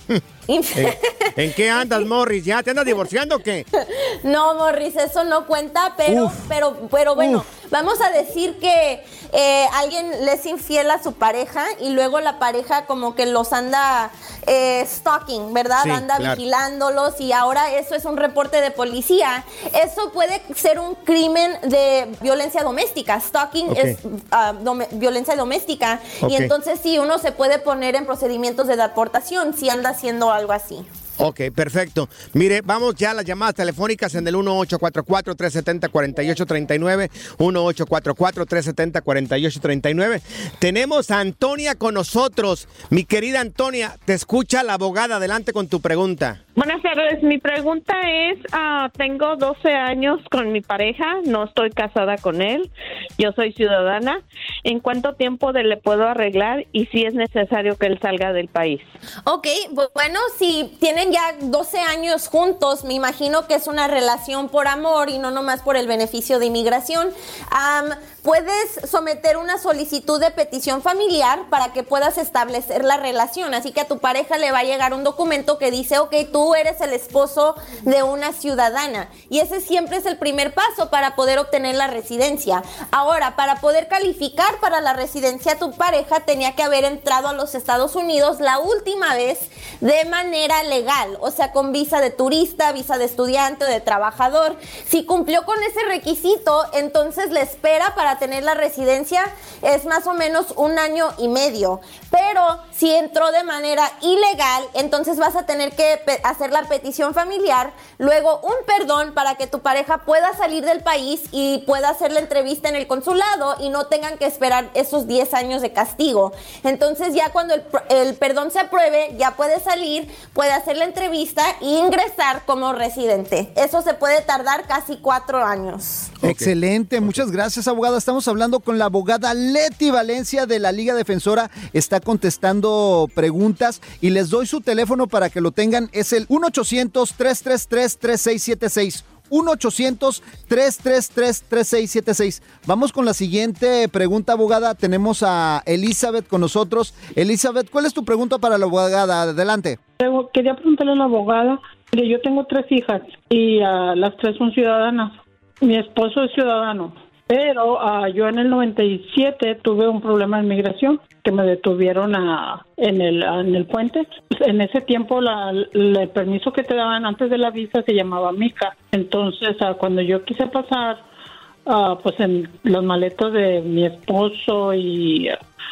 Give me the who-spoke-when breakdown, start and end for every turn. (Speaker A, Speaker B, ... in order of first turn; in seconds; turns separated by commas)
Speaker A: 0.5-2.0, Speaker B: 0.7-3.7, Speaker A: 3.8-30.9, Speaker C: 6.1-6.5, Speaker C: 7.2-7.5, Speaker B: 15.8-16.4, Speaker B: 23.7-24.0, Speaker B: 26.2-26.5, Speaker B: 31.2-46.4, Speaker D: 46.6-58.9, Speaker A: 59.2-126.2, Speaker B: 126.2-127.2, Speaker C: 126.2-149.8, Speaker E: 150.0-171.0, Speaker E: 171.7-175.3